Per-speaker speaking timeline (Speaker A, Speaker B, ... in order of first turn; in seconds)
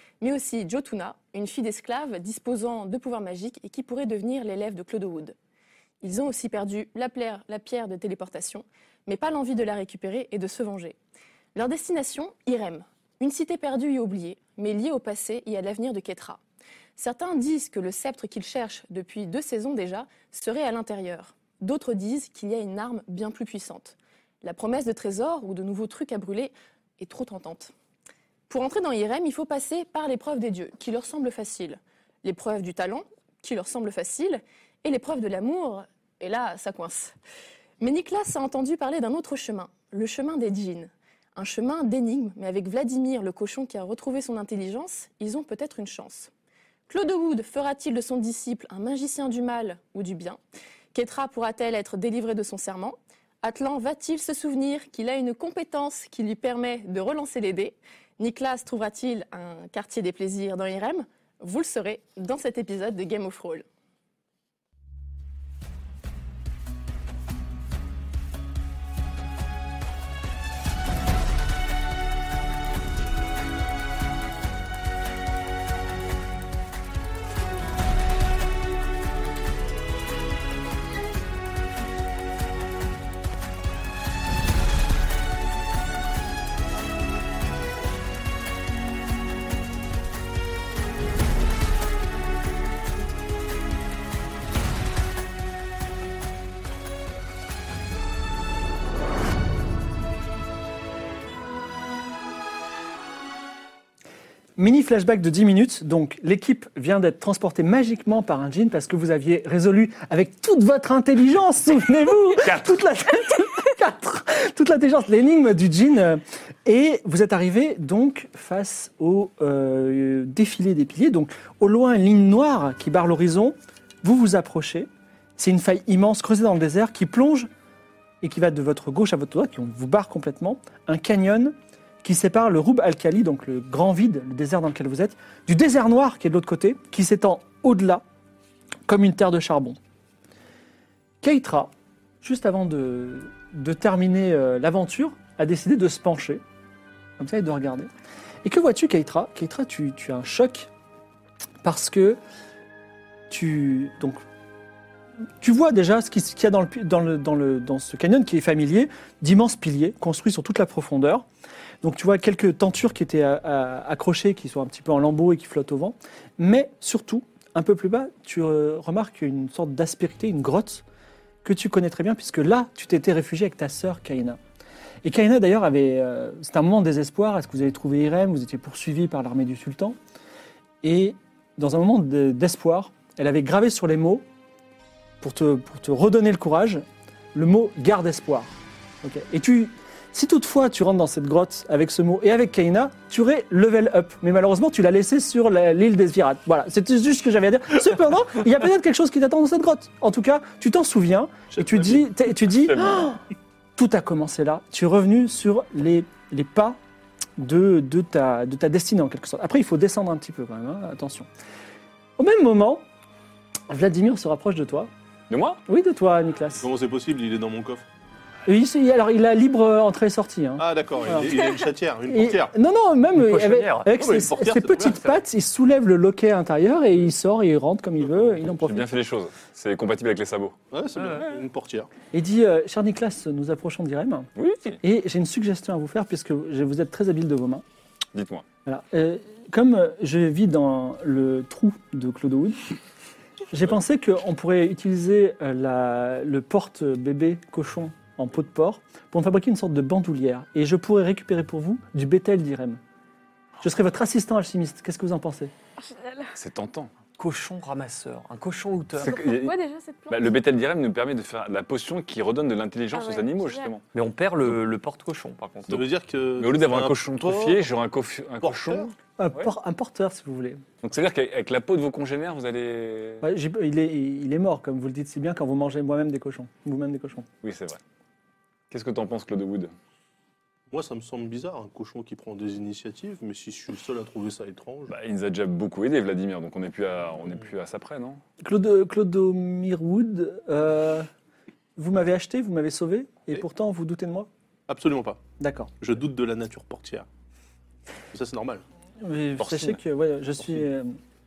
Speaker A: 0.2-5.3, 6.0-10.9, 11.5-16.4, 17.0-27.7, 28.5-37.1, 37.8-46.3, 46.9-50.4, 50.9-63.6
Speaker B: 104.6-127.5, 128.2-138.0, 138.9-139.8, 141.2-146.4, 147.2-147.9, 148.4-150.7, 151.6-152.2, 153.3-154.2, 155.4-161.2, 161.8-170.8, 171.4-174.4, 175.0-180.0, 180.8-184.2, 185.2-203.2, 203.8-206.8, 207.4-211.3, 212.2-212.8, 213.7-214.9, 215.7-216.7, 218.4-221.3, 222.1-228.9, 232.1-234.3, 234.8-237.6, 238.7-242.6, 243.5-252.8, 253.6-255.5, 269.2-270.6, 273.2-277.2, 288.4-291.1, 291.8-294.3, 295.4-295.7, 299.0-301.0
Speaker C: 112.4-112.8, 202.6-203.1, 215.3-215.6, 228.4-230.5, 234.3-234.8, 238.1-238.4, 256.3-256.9, 258.9-259.6, 260.1-263.8, 266.4-269.5, 270.8-273.2, 277.4-277.8, 278.7-279.7, 284.9-288.2, 299.4-299.8
Speaker D: 201.6-202.0, 216.6-217.8, 220.6-222.5, 224.0-225.2, 230.7-231.9, 265.7-267.7, 268.4-268.9, 280.7-284.9, 294.7-295.2, 295.8-297.1, 298.1-298.6
Speaker E: 221.3-221.7, 255.8-256.3, 259.1-260.3, 262.9-263.7
Speaker F: 223.1-223.9, 230.9-231.4, 257.2-259.3, 263.9-265.8